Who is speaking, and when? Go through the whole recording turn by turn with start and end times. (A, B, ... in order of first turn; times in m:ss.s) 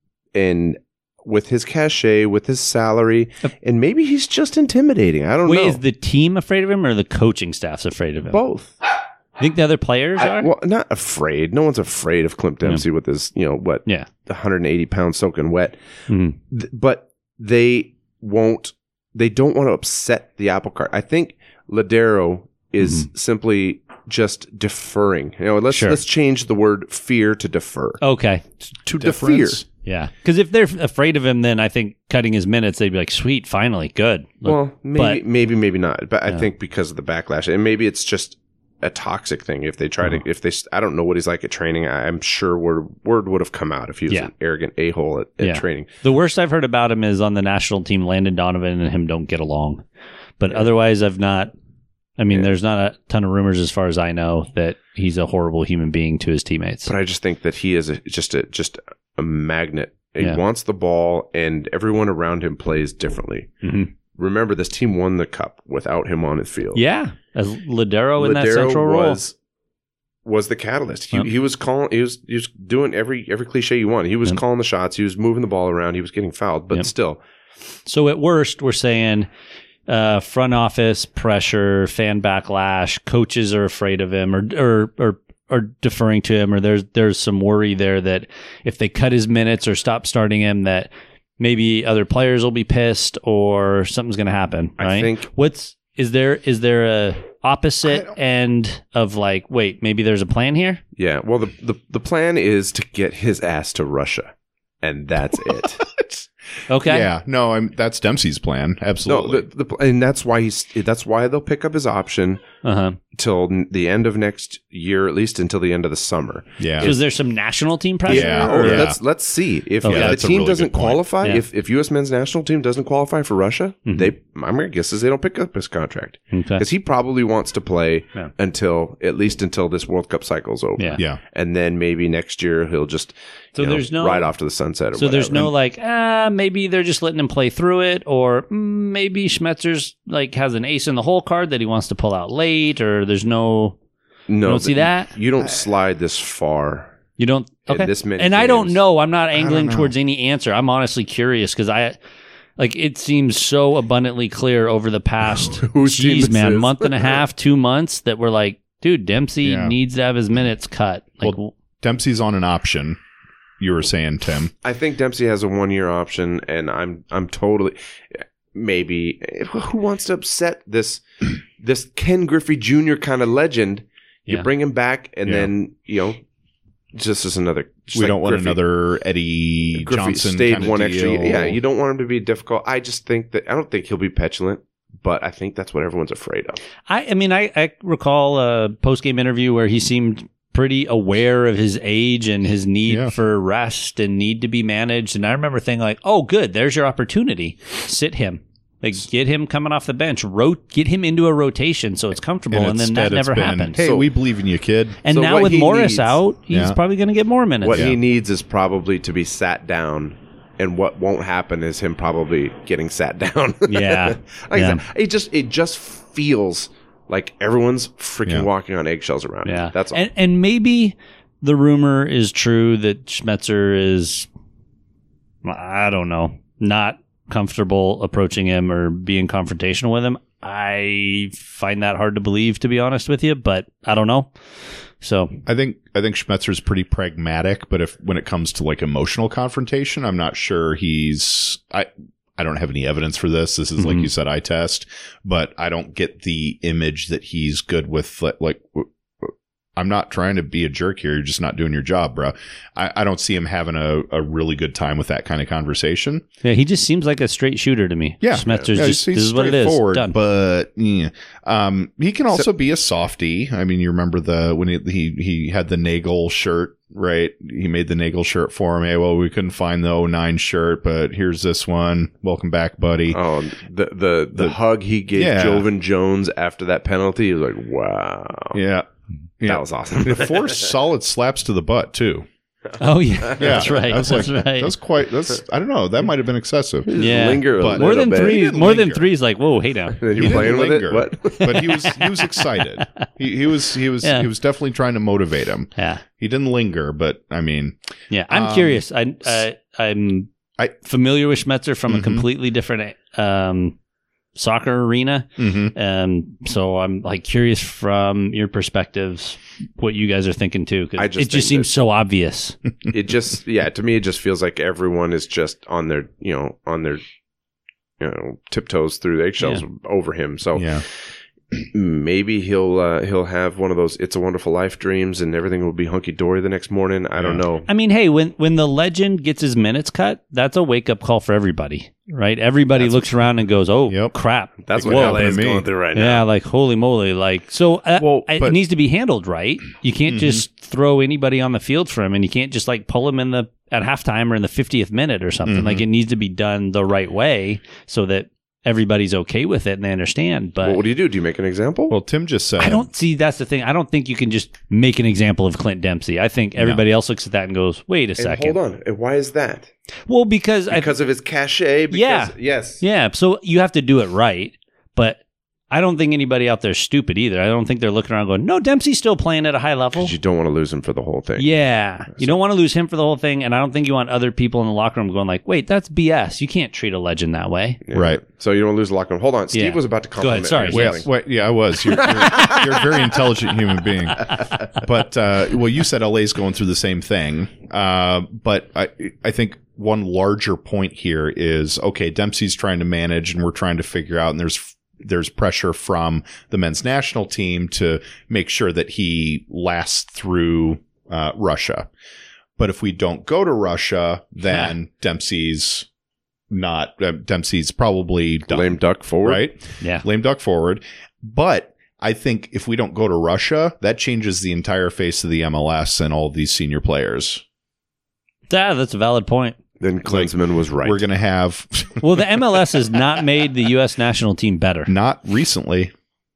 0:00.3-0:05.8 A
0:05.4-0:08.4 B
0:08.3-0:08.8 A
0:09.4-0:10.5 B
0:10.2-0:15.8 A
0:16.1-0:16.4 B
0:16.5-0:28.0 A
0:22.8-0:23.1 B
0:25.7-0:26.0 B
0:28.0-0:28.4 B
0:28.8-0:29.6 A
0:29.0-0:29.6 C
0:29.8-0:35.2 B
0:34.4-0:45.9 A
0:45.4-0:49.8 B
0:50.4-0:51.5 B
0:52.2-0:56.9 B
0:56.8-1:03.5 A
1:03.6-1:03.9 B
1:04.1-1:06.8 A
1:06.7-1:09.2 B
1:08.2-1:09.3 A
1:10.2-1:17.2 A
1:17.8-1:19.3 B
1:19.9-1:40.8 B
1:34.8-1:35.3 A
1:37.8-1:38.1 C
1:41.0-1:44.3 A
1:44.8-1:46.1 A
1:46.7-1:47.1 B
1:46.8-1:49.4 C
1:49.0-1:52.4 A
1:52.6-1:53.0 B
1:53.1-1:57.0 A
1:56.6-1:56.9 C
1:56.8-1:58.9 B
1:58.1-1:59.0 C
1:58.1-2:15.5 A
1:59.8-2:00.2 B
1:59.8-2:01.0 C
2:03.8-2:04.1 B
2:06.3-2:06.6 B
2:13.5-2:14.3 B
2:15.0-2:23.8 B
2:24.3-2:26.9 A
2:24.4-2:25.1 B
2:27.2-2:32.0 B
2:27.7-2:28.8 A
2:29.3-2:29.9 C
2:32.6-2:41.5 B
2:35.3-2:37.2 A
2:39.4-2:39.7 C
2:41.2-2:43.0 C
2:43.6-2:44.5 C
2:44.6-2:56.2 A
2:55.2-2:55.5 C
2:56.9-2:58.6 A
2:57.9-3:01.6 C
2:59.7-3:06.6 A
3:06.9-3:23.8 B
3:12.9-3:13.1 C
3:22.5-3:25.0 C
3:23.8-3:24.1 A
3:25.0-3:27.9 B
3:25.1-3:26.2 A
3:26.5-3:26.8 C
3:27.6-3:40.0 A
3:27.7-3:28.0 C
3:33.7-3:34.8 B
3:39.4-3:44.3 B
3:45.4-3:54.3 B
3:55.0-3:55.4 B
3:55.4-4:16.2 C
4:03.8-4:04.1 B
4:16.4-4:20.2 B
4:18.2-4:33.2 C
4:18.4-4:18.8 A
4:33.1-4:38.6 A
4:35.1-4:35.7 C
4:38.5-4:38.9 C
4:39.4-4:42.3 C
4:39.4-4:40.7 A
4:42.8-4:44.7 B
4:43.2-4:44.1 A
4:43.4-4:46.9 C
4:46.9-4:48.4 A
4:47.0-4:50.0 B
4:47.4-4:49.1 C
4:50.0-4:51.9 A
4:50.1-4:57.8 C
4:51.4-4:53.0 B
4:54.0-4:54.3 B
4:55.8-4:56.0 B
4:58.1-5:00.3 B
4:58.3-4:59.4 C
5:00.8-5:03.8 B
5:01.9-5:02.2 C
5:04.3-5:12.6 B
5:05.4-5:05.7 C
5:11.0-5:11.7 A
5:12.9-5:17.0 A
5:18.0-5:21.1 A
5:20.5-5:20.8 C
5:21.7-5:27.7 A
5:27.2-5:27.4 C
5:27.7-5:35.4 B
5:33.9-5:34.1 C
5:34.6-5:36.2 A
5:34.7-5:35.6 C
5:35.9-5:50.8 B
5:38.0-5:38.6 C
5:40.1-5:40.4 C
5:45.4-5:45.8 C
5:50.6-5:52.0 A
5:51.9-5:52.9 C
5:52.6-5:58.6 B
5:56.6-5:56.8 C
5:58.2-5:59.7 A
6:00.1-6:00.9 B
6:00.7-6:02.8 A
6:01.9-6:05.2 B
6:05.7-6:10.1 B
6:10.0-6:11.5 A
6:11.4-6:17.8 B
6:17.8-6:21.1 A
6:17.9-6:18.2 C
6:19.5-6:21.0 B
6:20.7-6:41.9 C
6:21.9-6:22.6 A
6:42.6-6:45.9 C
6:46.5-6:57.4 C
6:48.5-6:49.5 A
6:49.8-6:50.0 B
6:58.5-6:59.6 B
6:59.8-7:01.0 A
7:00.0-7:02.2 C
7:02.0-7:04.9 B
7:04.8-7:05.9 C